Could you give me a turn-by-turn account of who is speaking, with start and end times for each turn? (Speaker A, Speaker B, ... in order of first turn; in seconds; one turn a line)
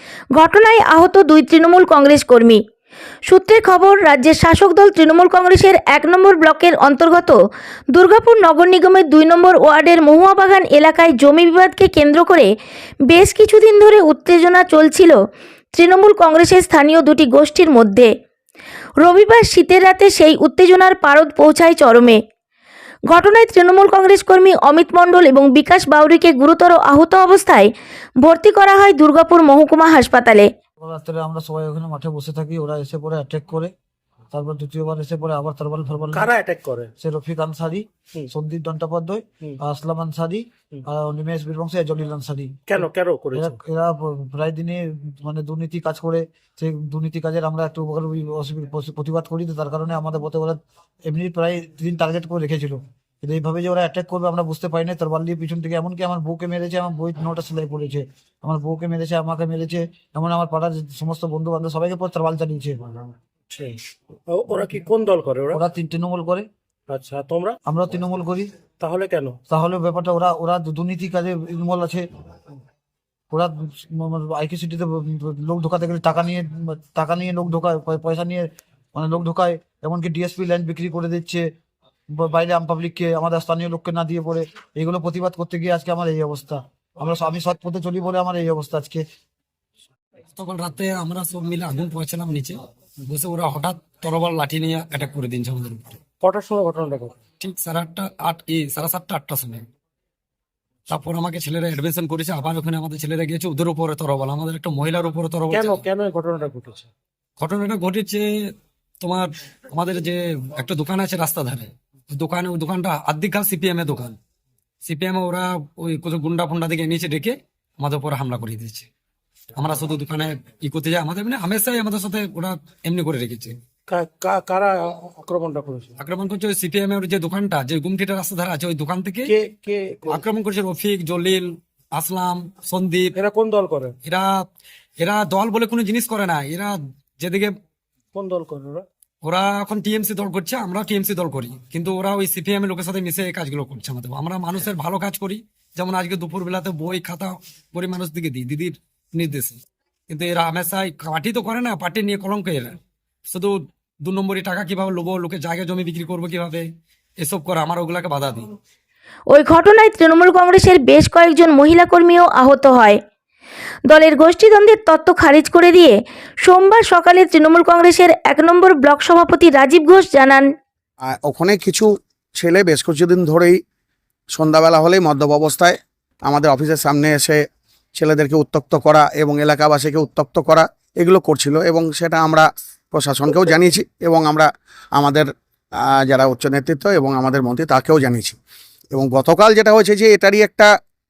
Speaker A: 0.3-2.6
Speaker A: 3.3-7.3
Speaker A: 7.9-12.5
Speaker A: 13.1-15.2
Speaker A: 15.7-18.1
Speaker A: 19.0-22.2
Speaker A: 23.1-27.7
Speaker A: 28.2-30.5
Speaker B: 30.8-33.7
Speaker B: 34.3-36.3
Speaker C: 36.1-36.9
Speaker B: 37.0-63.1
Speaker C: 42.7-43.6
Speaker C: 63.5-65.6
Speaker B: 65.5-66.5
Speaker C: 66.9-67.5
Speaker B: 67.7-68.5
Speaker C: 68.8-69.4
Speaker B: 69.5-72.0
Speaker B: 73.3-81.5
Speaker B: 82.1-89.0
Speaker D: 90.3-96.0
Speaker C: 96.2-97.1
Speaker D: 97.4-99.7
Speaker D: 100.9-105.8
Speaker C: 105.5-106.9
Speaker D: 107.4-108.2
Speaker D: 109.0-114.2
Speaker D: 114.8-118.9
Speaker D: 119.6-123.5
Speaker C: 123.9-125.9
Speaker D: 126.0-129.3
Speaker C: 129.3-130.1
Speaker D: 130.1-133.2
Speaker C: 133.1-133.9
Speaker D: 135.0-137.5
Speaker C: 138.1-138.8
Speaker D: 139.2-152.7
Speaker D: 153.3-156.6
Speaker D: 157.2-158.5
Speaker A: 159.3-163.0
Speaker A: 163.9-170.5
Speaker E: 171.1-173.6
Speaker E: 174.3-177.4
Speaker E: 177.9-185.3
Speaker E: 185.9-188.4
Speaker E: 188.9-190.7